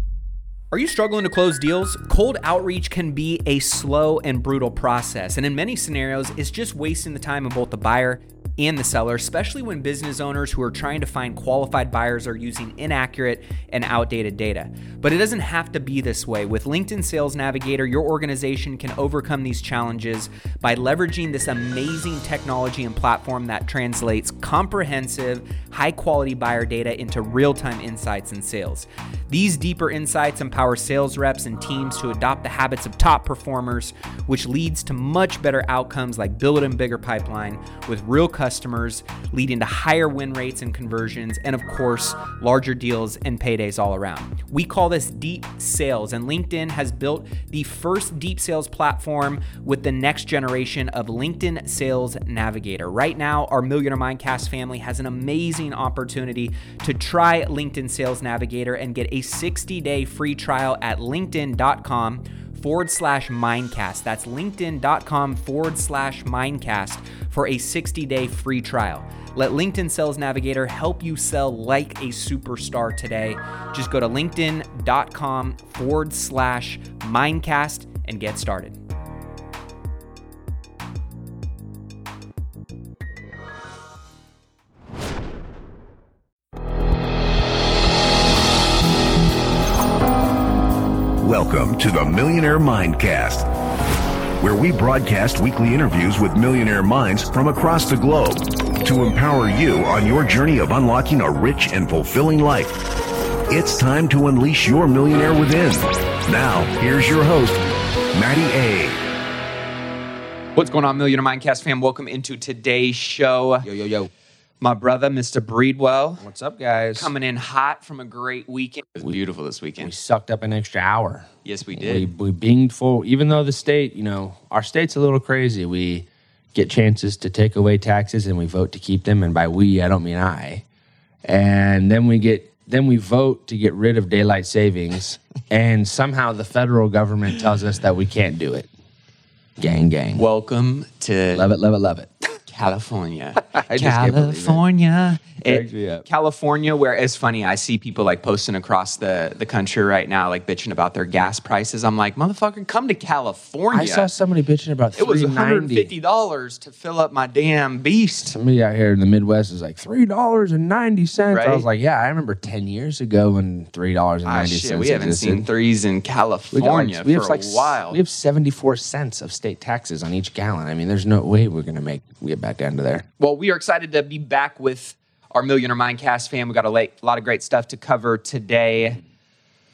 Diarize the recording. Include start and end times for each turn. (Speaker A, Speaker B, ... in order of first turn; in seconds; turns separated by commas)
Speaker A: 0.7-78.8, Speaker B: 91.2-93.5, Speaker B: 94.4-102.8, Speaker B: 103.5-107.6, Speaker B: 108.1-109.0, Speaker A: 110.6-113.7, Speaker C: 113.6-114.1, Speaker A: 114.6-116.2, Speaker C: 116.2-117.1, Speaker A: 117.0-119.9, Speaker C: 119.8-130.7, Speaker A: 121.5-122.1, Speaker C: 131.2-138.7, Speaker C: 139.6-140.3, Speaker A: 140.2-141.5, Speaker C: 141.3-142.1, Speaker A: 142.5-154.1, Speaker C: 143.5-144.6, Speaker C: 145.4-146.1, Speaker C: 153.7-155.9, Speaker A: 154.9-158.3, Speaker C: 158.3-165.5, Speaker A: 161.3-161.7, Speaker A: 164.2-168.0, Speaker C: 166.5-173.1, Speaker A: 173.2-179.0